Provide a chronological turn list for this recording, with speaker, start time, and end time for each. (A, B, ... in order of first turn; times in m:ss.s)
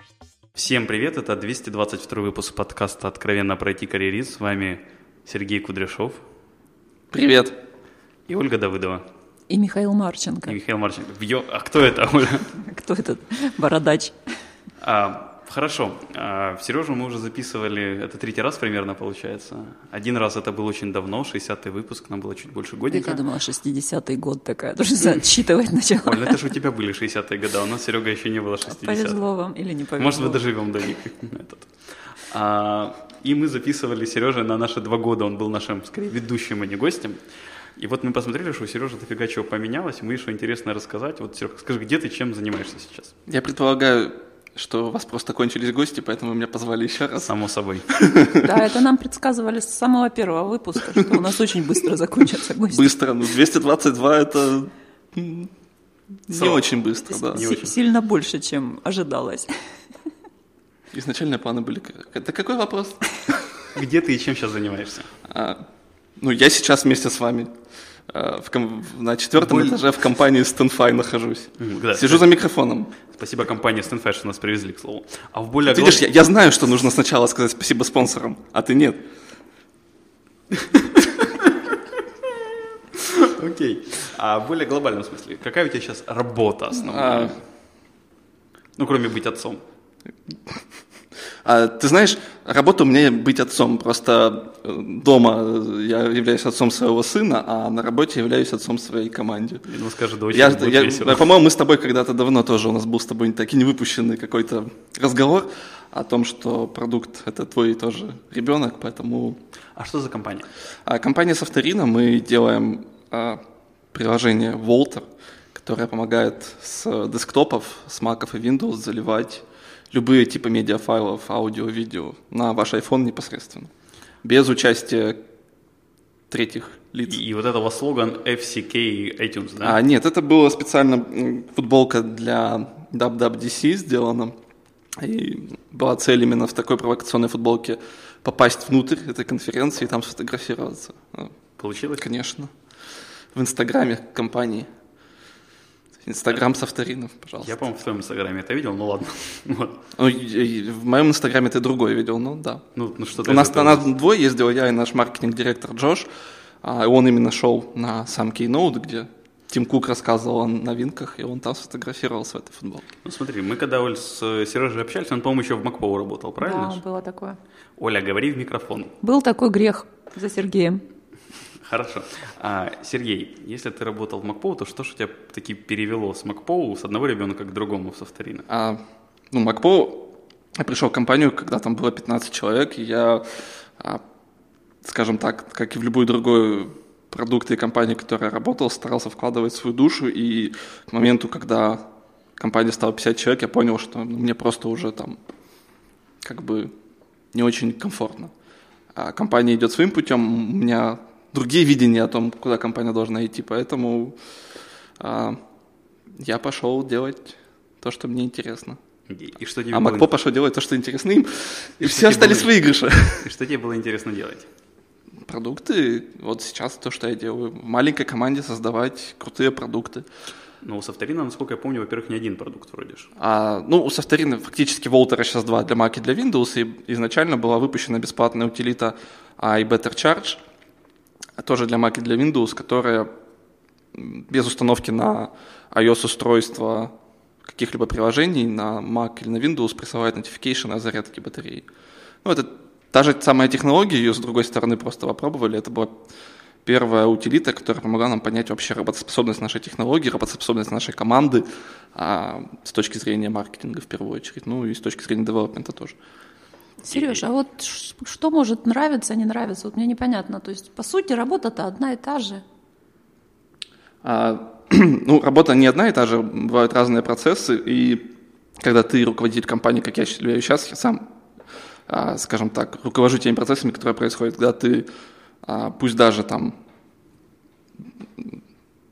0:00.5-0:06.2 A
0:07.1-0:07.6 B
0:08.3-0:09.0 A
0:09.5-0:10.6 C
0:10.4-0:12.5 A
0:12.6-0:14.2 C
0:14.8-0:23.2 A
0:22.9-0:26.4 C
0:26.0-0:29.2 A
0:28.7-0:30.4 C
0:30.0-0:43.1 A
0:43.3-0:47.3 B
0:47.2-0:47.9 A
0:47.9-0:48.5 B
0:48.4-0:52.9 C
0:52.7-0:55.5 B
0:56.3-0:57.4 B
0:56.3-0:57.7 A
0:57.3-0:59.5 C
1:00.9-1:03.0 B
1:03.7-1:05.1 A
1:05.2-1:05.6 B
1:06.2-1:07.5 B
1:08.1-1:12.9 B
1:09.4-1:09.7 A
1:11.6-1:12.3 A
1:13.1-1:16.0 A
1:15.7-1:19.0 B
1:20.5-1:21.8 A
1:23.0-1:27.4 A
1:26.8-1:27.4 B
1:28.8-1:29.6 A
1:31.4-1:39.6 B
1:39.6-1:41.3 A
1:40.3-1:49.4 B
1:49.8-1:50.5 A
1:50.8-1:53.4 B
1:53.9-2:03.7 B
2:04.2-2:05.2 B
2:06.3-2:07.2 B
2:07.0-2:09.8 A
2:09.6-2:14.4 B
2:15.0-2:21.3 B
2:21.6-2:22.0 A
2:22.0-2:22.5 B
2:23.3-2:24.7 B
2:26.0-2:27.6 B
2:27.4-2:29.8 A
2:30.0-2:32.6 B
2:32.8-2:33.9 A
2:33.2-2:36.1 B
2:36.6-2:42.9 B
2:43.0-2:46.8 A
2:46.4-2:47.4 C
2:47.8-2:49.0 A
2:49.0-2:50.8 C
2:51.6-2:58.4 A
2:58.5-3:04.0 B
3:04.8-3:11.8 B
3:12.4-3:15.2 B
3:16.2-3:16.7 B
3:17.3-3:18.3 B
3:18.9-3:24.2 B
3:25.0-3:25.4 B
3:26.2-3:28.8 B
3:29.1-3:30.1 A
3:29.7-3:33.3 B
3:31.8-3:34.5 A
3:35.2-3:40.0 B
3:40.6-3:43.1 A
3:43.2-3:50.4 B
3:51.4-3:53.1 B
3:53.9-3:56.9 B
3:57.4-4:01.7 B
4:02.2-4:06.0 B
4:06.6-4:16.0 B
4:16.8-4:22.4 C
4:24.0-4:31.0 B
4:31.9-4:34.9 B
4:35.4-4:36.5 B
4:38.0-4:38.4 B